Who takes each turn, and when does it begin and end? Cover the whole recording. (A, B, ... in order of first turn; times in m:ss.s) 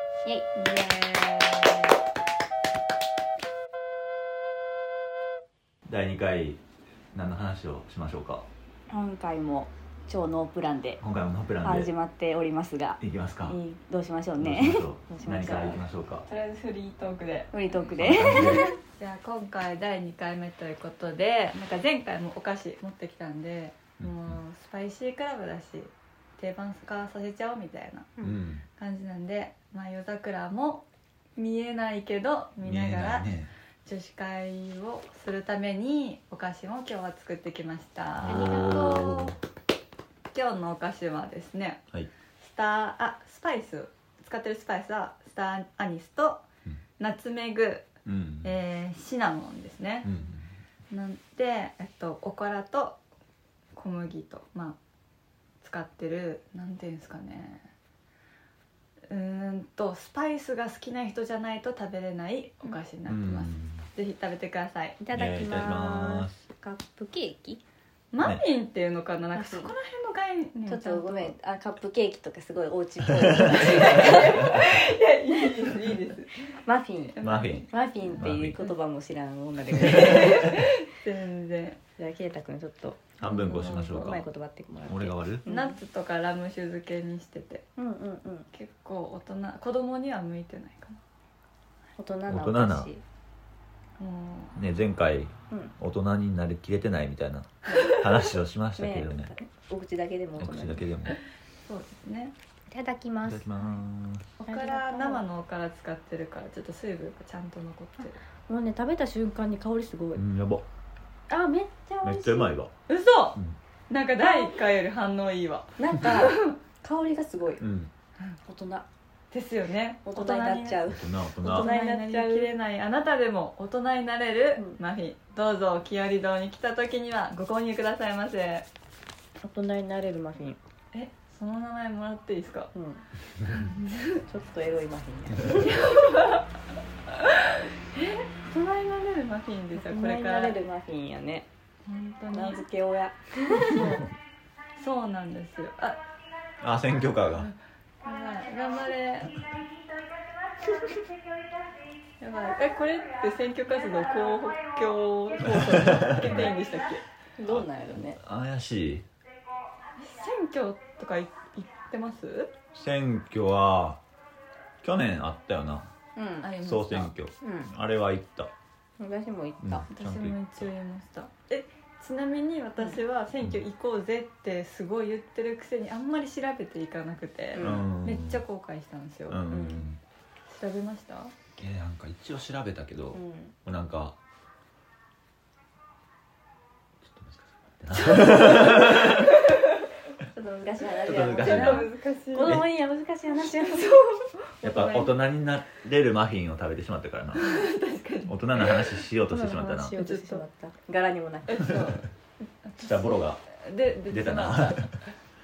0:00.2-0:01.8 A
0:05.9-0:06.6 B
0:07.1-0:08.5 B
0:08.9-0:11.0 A
0:11.0-0:11.9 B
0:11.6-0:15.8 A
0:13.0-0:13.6 B
0:14.4-0:16.2 B
0:15.4-0:28.1 C
0:17.5-0:18.8 A
0:18.0-0:18.8 B
0:24.0-0:24.4 B
0:28.2-0:28.6 B
0:28.8-0:30.9 C
0:31.4-0:33.3 C
0:32.6-0:33.5 B
0:33.8-0:39.4 C
0:38.2-0:39.4 B
0:38.3-0:39.1 A
0:40.3-0:41.8 C
0:42.4-0:46.4 C
0:47.0-0:47.9 C
0:48.0-0:48.5 B
0:48.4-0:50.1 C
0:50.0-0:50.5 B
0:50.9-0:53.0 C
0:53.8-0:54.8 C
0:55.6-0:57.6 C
0:59.1-1:05.0 C
1:03.1-1:03.9 B
1:05.0-1:07.6 A
1:05.1-1:06.5 B
1:08.1-1:11.3 C
1:09.3-1:09.7 A
1:10.7-1:14.6 A
1:13.0-1:14.7 B
1:13.5-1:16.6 C
1:16.6-1:17.2 A
1:17.1-1:18.7 C
1:17.2-1:17.7 B
1:17.7-1:20.6 A
1:18.2-1:18.6 B
1:19.8-1:21.8 C
1:22.0-1:25.8 A
1:23.2-1:24.3 B
1:24.9-1:25.4 B
1:25.5-1:27.6 C
1:27.8-1:28.5 A
1:28.5-1:31.0 C
1:32.0-1:33.0 A
1:32.3-1:32.9 B
1:34.0-1:34.6 C
1:34.6-1:39.3 B
1:38.8-1:40.9 A
1:40.4-1:41.2 B
1:41.6-1:42.3 C
1:42.7-1:43.6 A
1:43.3-1:44.3 B
1:44.4-1:45.2 A
1:44.4-1:48.2 C
1:48.5-1:50.2 A
1:50.2-1:50.6 B
1:51.3-1:52.5 A
1:52.0-1:52.7 B
1:52.9-1:53.4 C
1:53.9-1:56.6 C
1:54.2-1:54.6 A
1:55.8-1:57.6 A
1:57.6-1:57.9 B
1:58.5-1:58.9 A
1:59.3-2:00.8 C
2:00.0-2:02.5 A
2:00.8-2:01.7 B
2:01.4-2:08.7 C
2:09.4-2:10.6 A
2:10.9-2:12.7 C
2:12.7-2:13.1 A
2:13.5-2:14.2 C
2:14.1-2:16.0 A
2:15.6-2:16.5 C
2:17.1-2:20.6 C
2:19.7-2:21.5 A
2:21.9-2:22.6 C
2:22.3-2:24.0 A
2:23.5-2:24.1 C
2:24.8-2:26.0 C
2:26.6-2:27.5 B
2:27.4-2:29.5 C
2:30.6-2:31.1 A
2:32.2-2:37.0 C
2:35.4-2:36.6 B
2:35.8-2:36.7 A
2:37.4-2:38.2 A
2:37.5-2:39.0 B
2:40.0-2:42.5 C
2:42.7-2:44.0 B
2:44.8-2:45.9 B
2:46.2-2:46.5 A
2:46.4-2:47.1 C
2:46.6-2:48.5 B
2:47.4-2:47.7 A
2:49.0-2:49.8 A
2:49.6-2:50.7 B
2:49.9-2:59.4 C
2:57.6-2:57.9 A
2:57.6-2:58.4 B
2:59.3-3:00.0 B
2:59.5-2:59.8 A
3:00.5-3:01.4 C
3:01.6-3:04.2 B
3:03.1-3:03.6 A
3:07.0-3:09.4 B
3:08.0-3:09.8 C
3:10.3-3:14.2 A
3:11.1-3:11.9 B
3:11.4-3:12.7 C
3:12.4-3:12.7 B
3:13.6-3:15.1 C
3:14.6-3:17.6 B
3:17.4-3:19.0 C
3:18.3-3:20.0 B
3:19.3-3:21.8 A
3:19.9-3:20.4 C
3:21.5-3:22.1 C
3:22.6-3:24.9 C
3:22.8-3:23.4 B
3:24.1-3:24.9 B